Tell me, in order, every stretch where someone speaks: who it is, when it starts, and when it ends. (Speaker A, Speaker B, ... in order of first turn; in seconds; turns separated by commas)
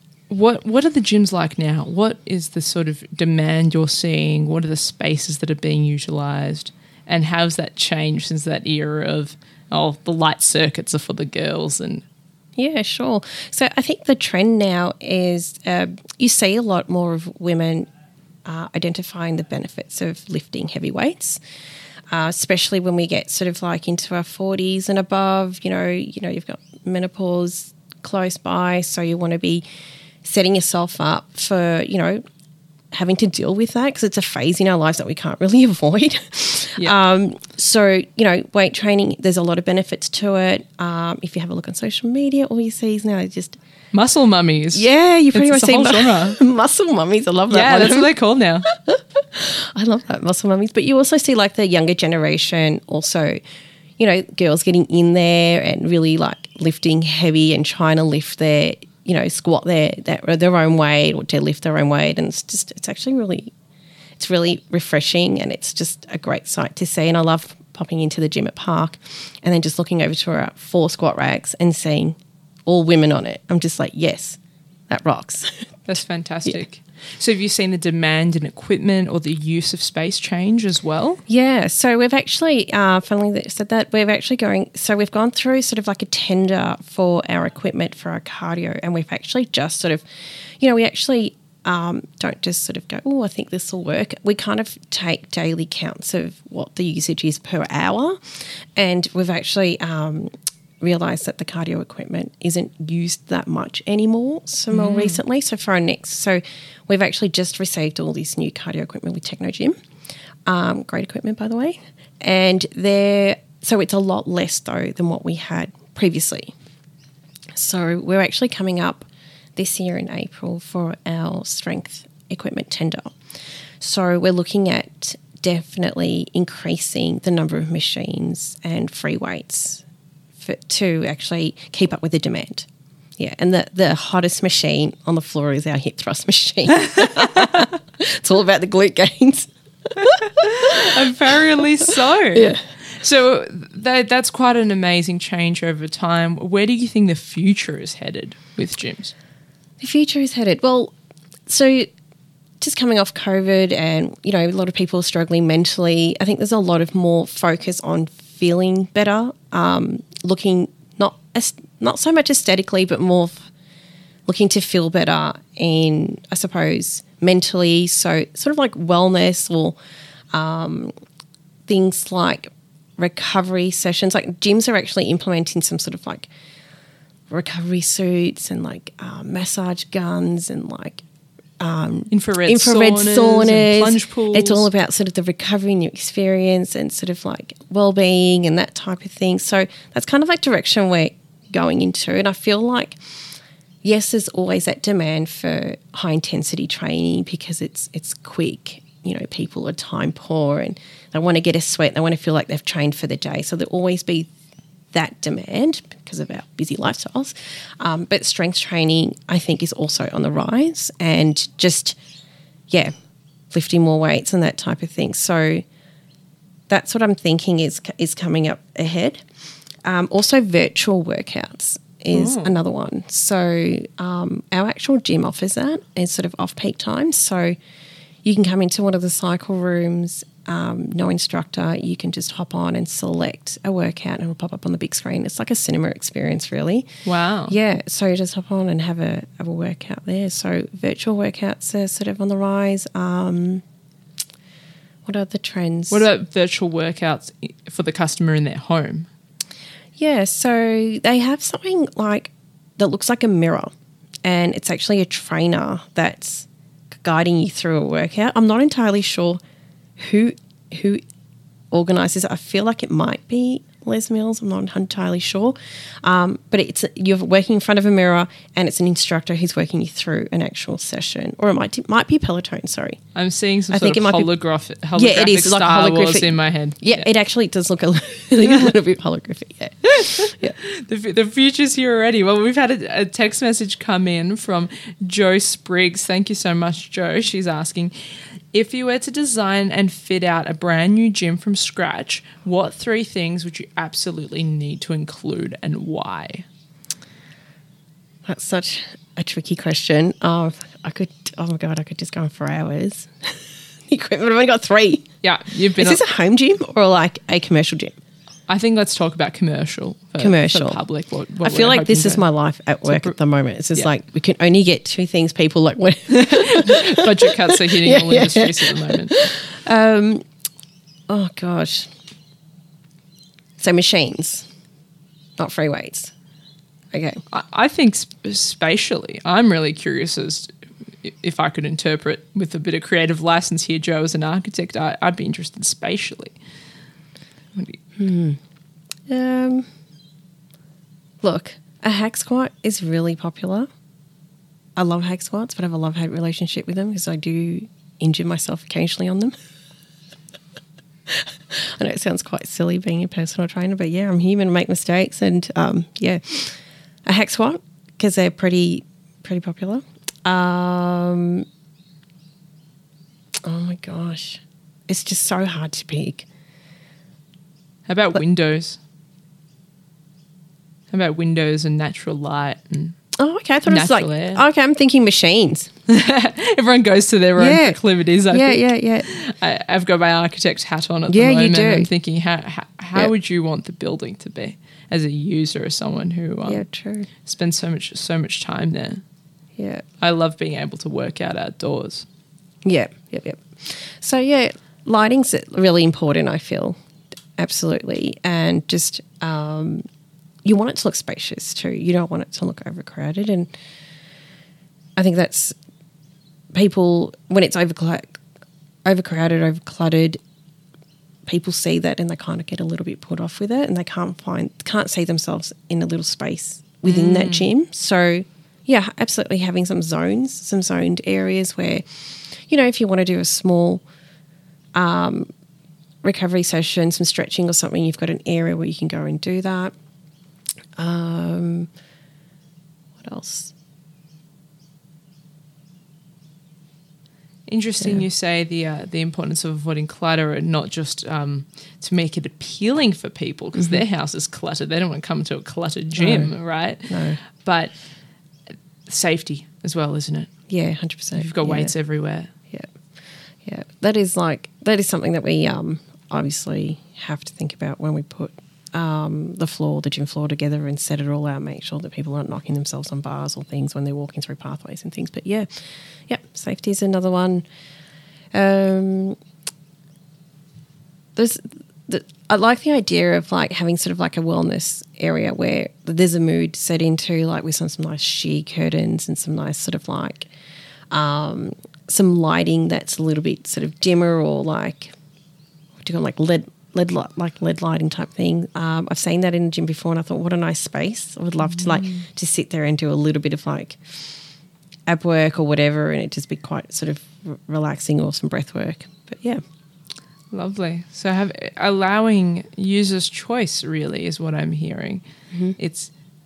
Speaker A: 0.3-12.0, Speaker B: 12.6-17.9, Speaker B: 18.4-21.4, Speaker B: 22.1-29.6, Speaker B: 30.2-32.2, Speaker B: 32.9-43.6, Speaker A: 43.9-46.4, Speaker B: 44.7-48.1, Speaker A: 47.5-48.7, Speaker B: 48.7-53.4, Speaker B: 54.0-63.5, Speaker B: 64.2-75.5, Speaker A: 75.9-81.2, Speaker B: 81.3-90.0, Speaker B: 90.6-109.8, Speaker A: 104.7-105.2, Speaker B: 110.5-116.5, Speaker B: 117.5-123.1, Speaker B: 123.8-129.8, Speaker B: 130.4-132.7, Speaker B: 133.2-140.9, Speaker A: 140.0-149.1, Speaker B: 142.3-142.6, Speaker B: 149.8-150.9, Speaker B: 151.5-151.9, Speaker B: 152.6-163.5, Speaker B: 164.3-169.8, Speaker B: 170.3-170.9, Speaker B: 171.7-176.3, Speaker B: 177.3-181.0, Speaker B: 181.6-193.0, Speaker A: 182.1-184.7, Speaker B: 193.8-204.3, Speaker B: 204.9-212.0, Speaker B: 213.5-215.6, Speaker B: 216.7-219.2, Speaker B: 219.8-227.6, Speaker A: 222.1-222.6, Speaker B: 228.2-236.9, Speaker A: 237.0-237.6, Speaker B: 237.5-243.6, Speaker B: 245.0-246.1, Speaker A: 245.9-249.1, Speaker B: 250.0-253.7, Speaker B: 254.2-259.4, Speaker B: 260.0-261.0, Speaker B: 261.7-273.0, Speaker A: 273.1-277.1, Speaker B: 273.7-274.3, Speaker B: 274.9-280.6, Speaker A: 280.0-287.9, Speaker A: 288.5-296.4, Speaker B: 298.2-305.1, Speaker A: 305.2-306.0, Speaker B: 305.8-308.0, Speaker A: 308.5-312.2, Speaker B: 310.2-310.8, Speaker B: 311.4-320.2, Speaker A: 312.9-313.1, Speaker A: 316.1-319.3, Speaker B: 321.1-321.9, Speaker B: 323.6-324.5, Speaker B: 325.4-326.1, Speaker B: 326.9-327.2, Speaker A: 327.3-336.4, Speaker B: 338.0-338.4, Speaker B: 339.1-339.7, Speaker B: 341.2-343.7, Speaker B: 344.8-349.4, Speaker B: 351.1-361.5, Speaker B: 363.4-366.3, Speaker A: 367.9-368.8, Speaker A: 370.9-373.0, Speaker B: 373.1-375.7, Speaker A: 373.6-374.4, Speaker A: 375.9-386.6, Speaker B: 377.4-379.1, Speaker B: 381.1-381.9, Speaker B: 386.4-387.1, Speaker A: 387.2-389.0, Speaker B: 389.6-389.8, Speaker A: 390.0-392.1, Speaker B: 392.6-396.8, Speaker B: 397.4-399.9, Speaker B: 400.4-403.5, Speaker B: 405.0-405.6, Speaker B: 406.5-408.2, Speaker B: 408.8-410.2, Speaker B: 411.2-423.8, Speaker A: 416.9-417.5, Speaker B: 424.8-425.3, Speaker B: 426.0-429.7, Speaker B: 430.8-431.7, Speaker B: 433.0-433.5, Speaker A: 437.5-447.8, Speaker B: 437.8-438.0, Speaker B: 443.6-443.8, Speaker B: 446.0-446.3, Speaker B: 446.9-447.2, Speaker A: 448.9-450.3, Speaker B: 450.5-451.7, Speaker A: 451.1-452.3, Speaker B: 453.4-467.4, Speaker B: 468.3-469.2, Speaker B: 471.2-480.3, Speaker B: 480.9-484.9, Speaker B: 485.8-493.8, Speaker A: 491.4-492.1, Speaker B: 494.9-499.4, Speaker A: 500.3-505.0, Speaker A: 505.6-505.9